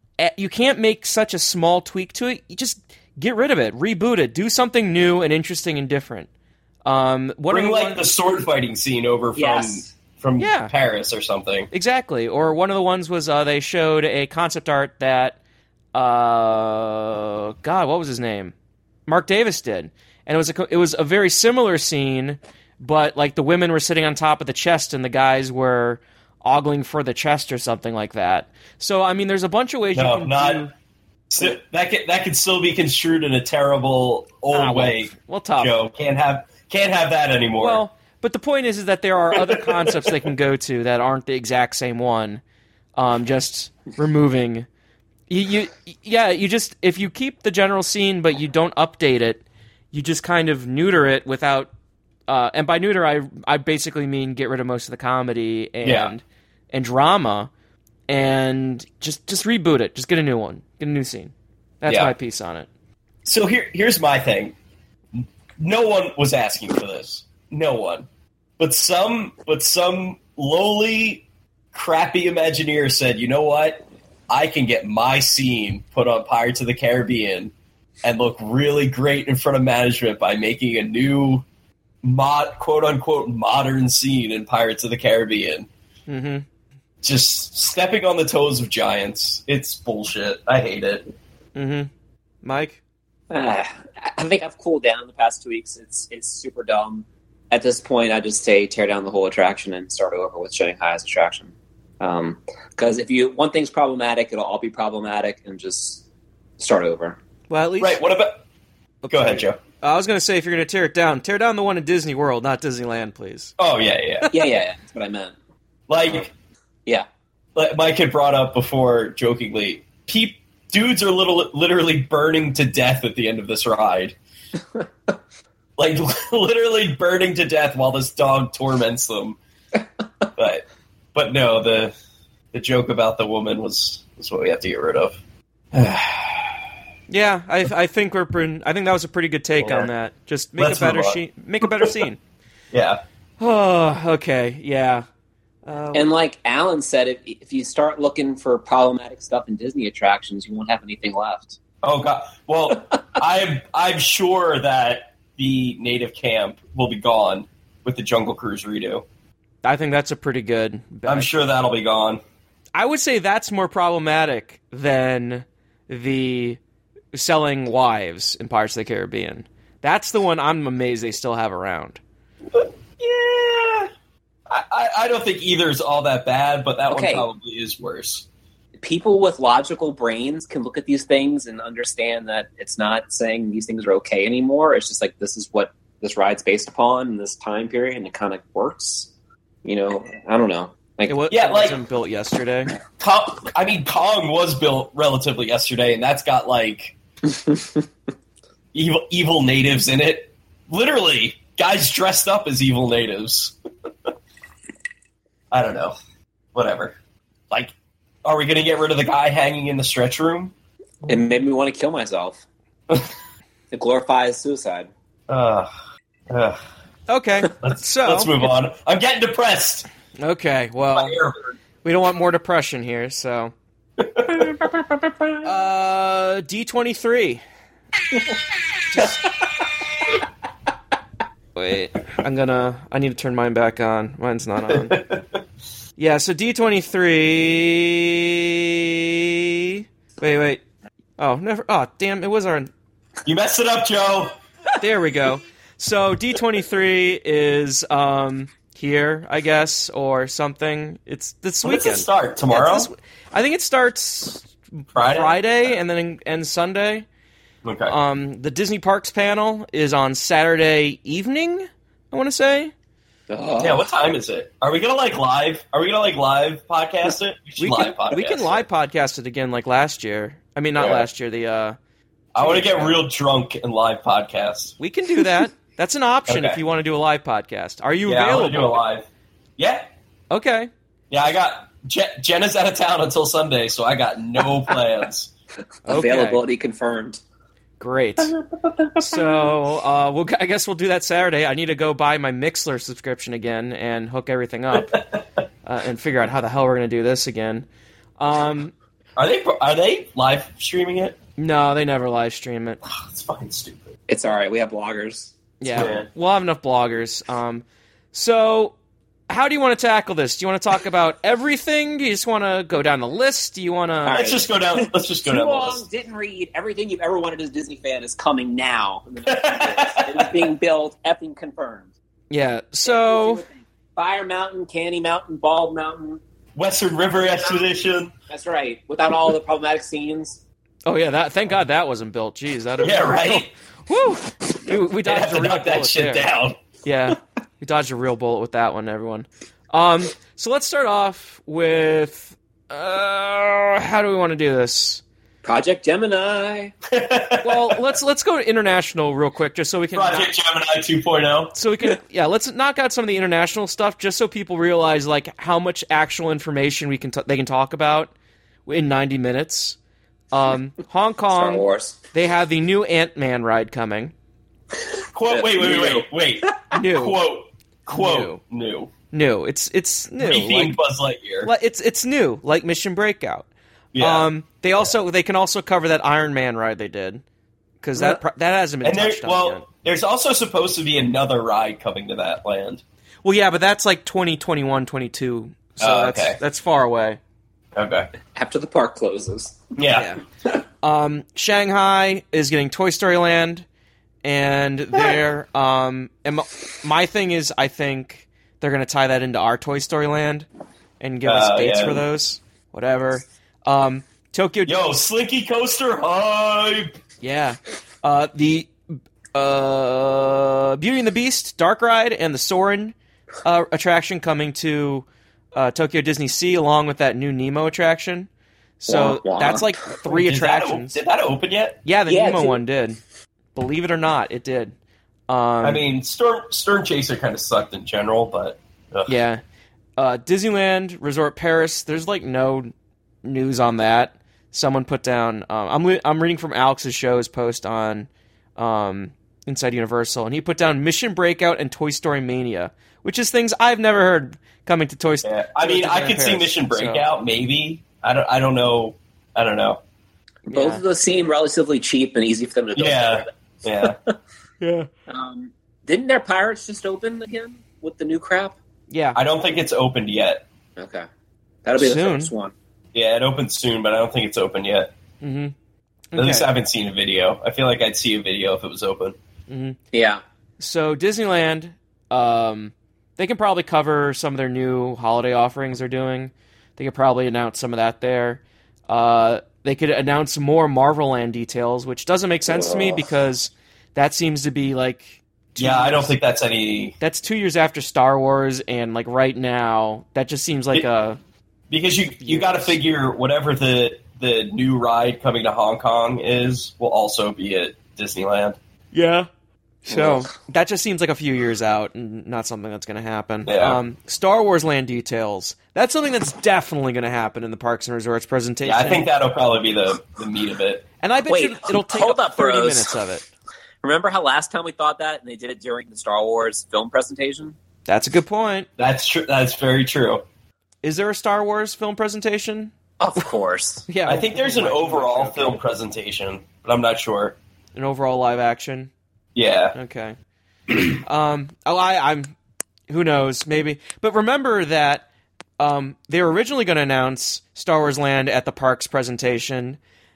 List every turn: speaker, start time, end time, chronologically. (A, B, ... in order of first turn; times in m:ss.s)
0:00.2-0:06.3 A
0:06.8-0:08.1 A
0:07.5-0:11.7 B
0:09.4-0:09.9 C
0:10.4-0:10.7 A
0:11.7-0:15.4 A
0:15.9-0:18.5 A
0:19.1-0:30.7 A
0:29.9-0:30.6 B
0:31.3-0:37.8 B
0:34.5-0:35.8 A
0:37.6-0:42.4 A
0:39.3-0:40.1 B
0:43.0-0:44.7 A
0:45.3-0:51.7 A
0:52.3-0:57.5 A
0:55.8-0:56.1 B
0:58.1-1:02.7 A
1:01.9-1:02.1 B
1:03.2-1:04.6 B
1:05.2-1:08.1 B
1:08.6-1:21.4 B
1:22.0-1:25.7 B
1:26.1-1:26.4 A
1:27.0-1:31.1 B
1:31.6-1:31.9 A
1:32.4-1:32.8 A
1:33.3-1:46.0 C
1:46.6-1:47.2 C
1:47.5-1:48.0 A
1:47.8-1:48.4 B
1:49.0-1:53.5 A
1:49.1-1:49.6 B
1:53.6-1:54.3 B
1:54.3-1:55.4 C
1:55.9-1:56.3 B
1:57.6-2:04.2 B
2:05.8-2:09.4 B
2:10.4-2:11.9 B
2:12.5-2:15.2 B
2:15.7-2:16.6 B
2:17.1-2:22.2 A
2:19.6-2:19.9 B
2:20.6-2:21.9 B
2:22.7-2:23.0 B
2:23.4-2:25.1 A
2:25.7-2:26.1 A
2:25.9-2:31.6 C
2:31.8-2:39.0 B
2:39.6-2:41.3 A
2:41.1-2:42.2 B
2:42.7-2:46.6 A
2:47.1-2:52.0 A
2:52.5-2:53.9 B
2:54.5-2:58.2 B
2:56.9-2:57.3 C
2:58.8-3:09.1 C
3:09.6-3:11.2 C
3:11.1-3:12.7 A
3:11.3-3:11.8 B
3:13.0-3:17.0 B
3:18.7-3:23.6 B
3:25.5-3:26.0 B
3:26.5-3:27.0 B
3:28.2-3:30.5 B
3:31.1-3:32.4 C
3:33.7-3:34.9 C
3:35.3-3:35.7 B
3:36.3-3:36.6 B
3:37.1-3:38.4 A
3:37.6-3:39.9 B
3:40.2-3:41.2 A
3:40.9-3:41.5 B
3:41.8-3:43.5 A
3:44.0-3:45.4 B
3:45.4-3:47.4 A
3:48.9-3:49.3 A
3:51.6-3:55.0 A
3:54.7-3:55.4 B
3:56.0-4:00.6 A
4:01.2-4:02.7 A
4:03.2-4:04.4 B
4:04.8-4:17.1 A
4:11.6-4:12.9 B
4:15.0-4:15.4 B
4:17.6-4:18.0 B
4:17.9-4:22.7 A
4:23.3-4:23.8 C
4:23.6-4:28.6 B
4:27.6-4:31.8 A
4:30.8-4:31.1 B
4:32.4-4:34.8 B
4:32.4-4:33.0 A
4:34.8-4:38.8 A
4:36.3-4:36.6 B
4:38.0-4:39.1 B
4:39.6-4:39.9 B
4:40.3-4:40.7 A
4:41.1-4:45.3 B
4:45.9-4:46.4 A
4:45.9-4:47.2 C
4:47.8-4:48.3 A
4:49.0-4:55.0 A
4:55.6-4:57.6 A
4:58.2-4:58.7 A
4:59.2-5:01.2 B
5:01.4-5:02.8 A
5:02.9-5:04.0 B
5:04.1-5:05.4 C
5:05.6-5:08.8 A
5:05.7-5:06.1 B
5:09.3-5:14.3 A
5:14.1-5:15.8 B
5:14.1-5:21.9 C
5:19.3-5:20.4 B
5:22.3-5:23.4 A
5:22.8-5:26.2 C
5:26.6-5:28.1 B
5:28.3-5:30.4 C
5:30.9-5:36.3 A
5:32.8-5:33.5 B
5:35.0-5:36.6 B
5:36.8-5:45.0 A
5:45.4-5:46.7 C
5:46.9-5:48.0 B
5:47.4-5:50.3 A
5:49.9-5:51.5 B
5:51.5-5:58.1 A
5:58.6-5:59.8 A
6:00.3-6:04.1 A
6:01.3-6:02.0 C
6:05.1-6:08.9 B
6:05.3-6:06.1 C
6:06.7-6:07.2 A
6:07.9-6:08.4 A
6:09.1-6:10.8 A
6:10.2-6:11.5 B
6:11.4-6:17.2 A
6:13.9-6:14.3 B
6:17.8-6:19.6 A
6:18.8-6:22.8 B
6:23.2-6:27.2 A
6:25.8-6:26.4 B
6:27.8-6:28.1 B
6:28.4-6:29.6 C
6:29.8-6:30.1 B
6:29.9-6:30.2 A
6:30.8-6:33.6 A
6:34.2-6:40.5 A
6:41.0-6:44.9 A
6:41.2-6:42.0 B
6:44.6-6:47.0 B
6:47.2-6:48.7 A
6:49.3-6:58.3 A
6:58.8-7:01.0 A
6:58.9-6:59.8 C
7:00.1-7:01.8 B
7:01.8-7:03.0 A
7:02.1-7:02.6 C
7:03.6-7:04.7 A
7:05.3-7:05.8 A
7:05.6-7:09.1 B
7:09.1-7:09.4 A
7:10.0-7:12.7 A
7:13.2-7:27.0 A
7:25.2-7:29.8 B
7:30.5-7:33.3 C
7:30.5-7:30.8 A
7:32.8-7:34.0 B
7:34.6-7:34.9 A
7:35.1-7:38.6 C
7:38.9-7:39.2 A
7:39.1-7:40.4 B
7:40.8-7:41.1 C
7:41.6-7:42.5 C
7:41.8-7:42.3 A
7:42.9-7:44.9 B
7:45.2-7:45.5 A
7:46.1-7:46.5 A
7:46.2-7:49.2 B
7:49.5-7:49.8 A
7:49.9-7:50.2 C
7:50.6-8:06.1 A
8:05.6-8:07.0 B
8:07.0-8:11.2 A
8:11.7-8:18.6 B
8:12.2-8:12.8 A
8:18.9-8:19.3 A
8:19.8-8:29.1 A
8:19.9-8:20.3 C
8:23.5-8:23.8 B
8:28.6-8:30.9 B
8:31.0-8:33.3 A
8:31.3-8:32.9 C
8:33.8-8:37.6 C
8:37.9-8:38.7 A
8:38.8-8:40.2 B
8:40.8-8:42.7 A
8:43.0-8:43.9 C
8:43.9-8:45.6 A
8:44.0-8:47.4 B
8:47.8-8:48.9 A
8:49.4-8:49.8 B
8:49.8-8:50.2 A
8:50.9-8:52.3 A
8:52.9-8:55.0 A
8:55.6-8:59.8 A